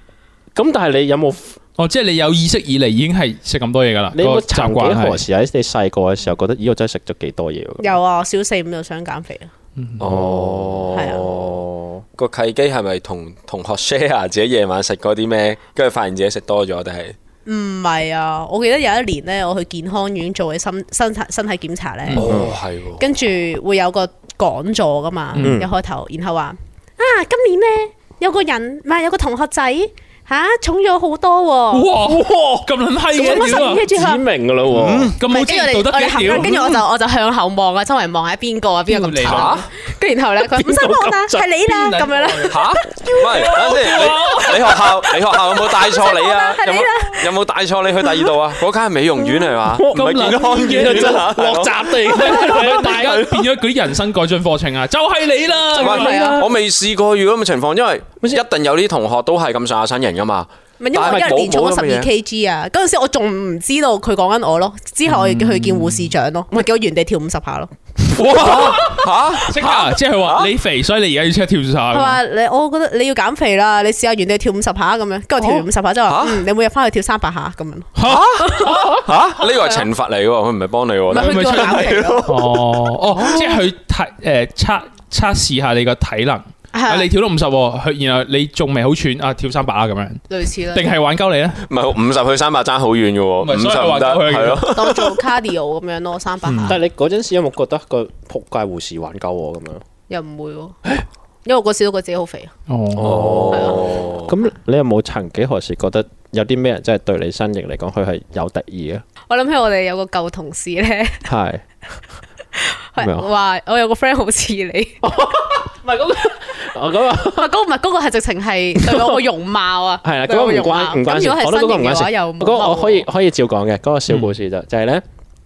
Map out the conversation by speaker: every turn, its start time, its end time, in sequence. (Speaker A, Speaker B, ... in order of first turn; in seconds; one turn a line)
Speaker A: 0.6-1.6
Speaker B: 1.8-5.2
Speaker A: 4.2-8.0
Speaker C: 7.8-9.5
Speaker B: 9.8-10.1
Speaker D: 10.0-11.5
Speaker A: 10.0-12.0
Speaker C: 10.9-11.4
Speaker D: 12.2-17.2
Speaker C: 17.4-22.4
Speaker D: 22.1-23.1
Speaker A: 22.2-22.5
Speaker C: 23.0-31.9
Speaker B: 25.4-25.6
Speaker A: 25.4-25.7
Speaker B: 31.7-33.9
Speaker A: 32.1-32.6
Speaker C: 33.1-34.2
Speaker A: 33.3-35.1
Speaker D: 34.7-35.2
Speaker B: 35.2-36.8
Speaker C: 35.3-42.7
Speaker B: 38.9-39.7
Speaker D: 39.2-39.7
Speaker A: 40.5-41.5
Speaker B: 41.7-45.0
Speaker D: 42.5-53.5
Speaker C: 45.4-47.3
Speaker C: 48.0-48.4
Speaker C: 49.2-49.6
Speaker A: 49.7-53.3
Speaker B: 49.9-51.3
Speaker B: 52.1-56.2
Speaker D: 55.7-62.1
Speaker C: 55.8-56.5
Speaker A: 55.8-56.5
Speaker C: 60.8-68.4
Speaker B: 65.0-66.2
Speaker B: 68.1-72.2
Speaker D: 68.3-70.5
Speaker C: 71.9-79.9
Speaker D: 76.1-76.5
Speaker B: 78.0-79.0
Speaker D: 78.0-82.9
Speaker C: 81.1-82.3
Speaker B: 81.1-91.7
Speaker C: 86.7-87.1
Speaker C: 90.3-90.9
Speaker D: 91.7-95.2
Speaker B: 93.4-94.8
Speaker C: 94.7-96.8
Speaker B: 96.5-96.8
Speaker A: 96.6-99.8
Speaker C: 100.1-100.8
Speaker C: 101.5-102.5
Speaker B: 102.7-103.3
Speaker A: 103.0-109.0
Speaker D: 103.0-104.3
Speaker C: 103.5-104.0
Speaker C: 109.3-111.3
Speaker A: 111.3-111.6
Speaker C: 112.5-115.0
Speaker A: 113.0-113.3
Speaker A: 115.0-117.5
Speaker C: 117.2-123.1
Speaker A: 118.8-119.2
Speaker A: 120.0-125.0